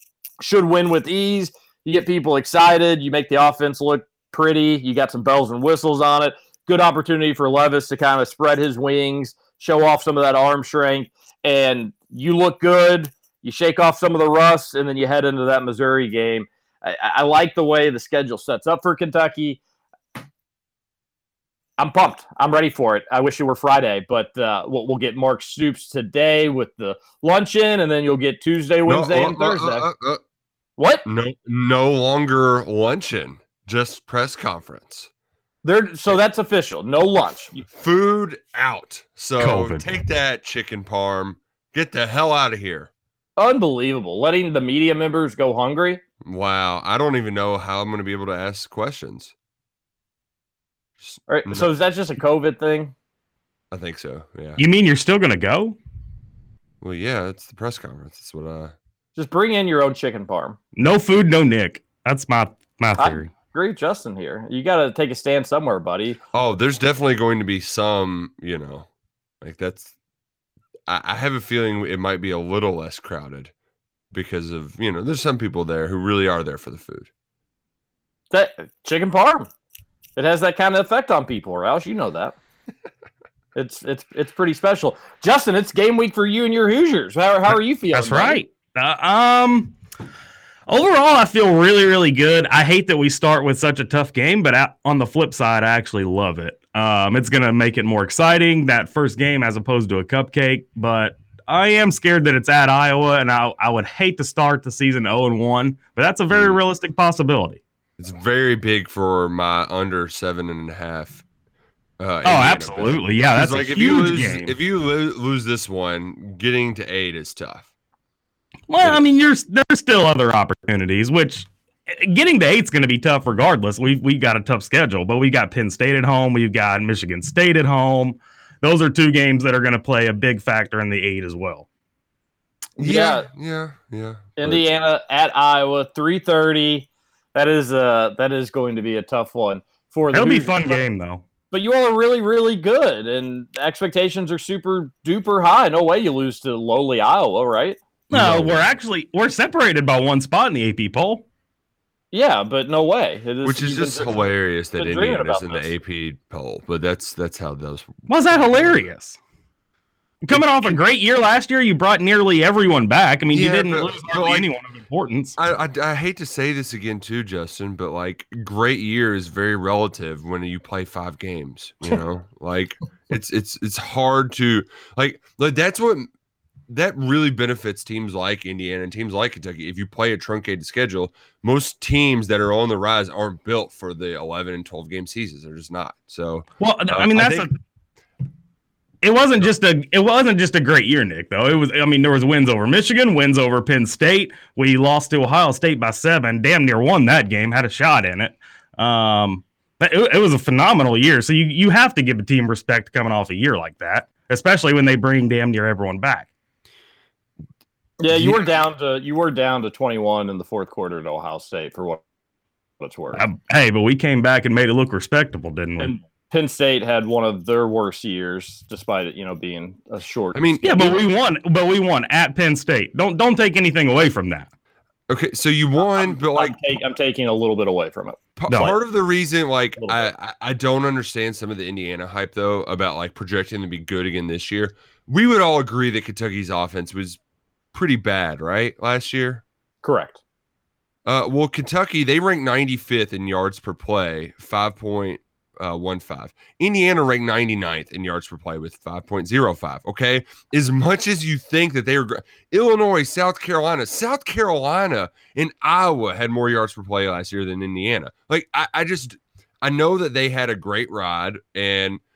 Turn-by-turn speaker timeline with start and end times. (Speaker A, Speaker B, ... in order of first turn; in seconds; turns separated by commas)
Speaker A: 0.4-19.6, Speaker A: 21.8-29.9, Speaker B: 28.8-30.2, Speaker A: 30.8-31.0, Speaker B: 31.0-35.1, Speaker A: 35.6-37.6, Speaker B: 37.6-42.9, Speaker C: 39.4-39.9, Speaker A: 43.4-46.0, Speaker B: 46.2-49.3, Speaker B: 51.0-51.7, Speaker A: 51.3-52.9, Speaker B: 53.7-54.6, Speaker C: 54.6-55.8, Speaker B: 56.8-58.7, Speaker A: 59.1-60.6, Speaker C: 60.8-63.3, Speaker A: 63.0-66.2, Speaker B: 66.3-68.9, Speaker B: 69.4-69.9, Speaker B: 70.9-73.5, Speaker B: 74.1-77.1, Speaker A: 78.3-79.5, Speaker A: 80.2-82.3, Speaker A: 83.5-88.4, Speaker C: 87.9-89.8, Speaker C: 90.7-107.6, Speaker B: 106.3-106.6, Speaker B: 108.0-111.2, Speaker B: 112.0-117.7, Speaker C: 112.2-114.5, Speaker C: 118.7-131.7, Speaker A: 132.8-133.3, Speaker B: 132.8-134.7, Speaker A: 134.4-140.8, Speaker C: 140.1-141.2, Speaker A: 141.5-147.8, Speaker B: 148.1-148.7, Speaker C: 148.1-151.2, Speaker A: 152.1-154.2, Speaker B: 153.4-157.9, Speaker A: 154.8-155.7, Speaker C: 158.1-159.2, Speaker C: 160.2-165.3, Speaker B: 160.3-160.8, Speaker B: 163.3-164.5, Speaker B: 165.4-176.1, Speaker B: 176.7-187.4, Speaker C: 186.6-187.5, Speaker C: 189.0-206.3, Speaker A: 208.0-212.0, Speaker C: 208.1-208.4, Speaker A: 212.8-213.2, Speaker C: 213.1-215.9, Speaker A: 215.8-221.0, Speaker B: 220.3-220.6, Speaker C: 220.6-224.5, Speaker B: 225.1-226.6, Speaker A: 225.8-228.7, Speaker B: 228.4-237.2, Speaker A: 229.8-230.1, Speaker B: 237.7-239.4, Speaker A: 239.8-240.2, Speaker B: 241.1-262.0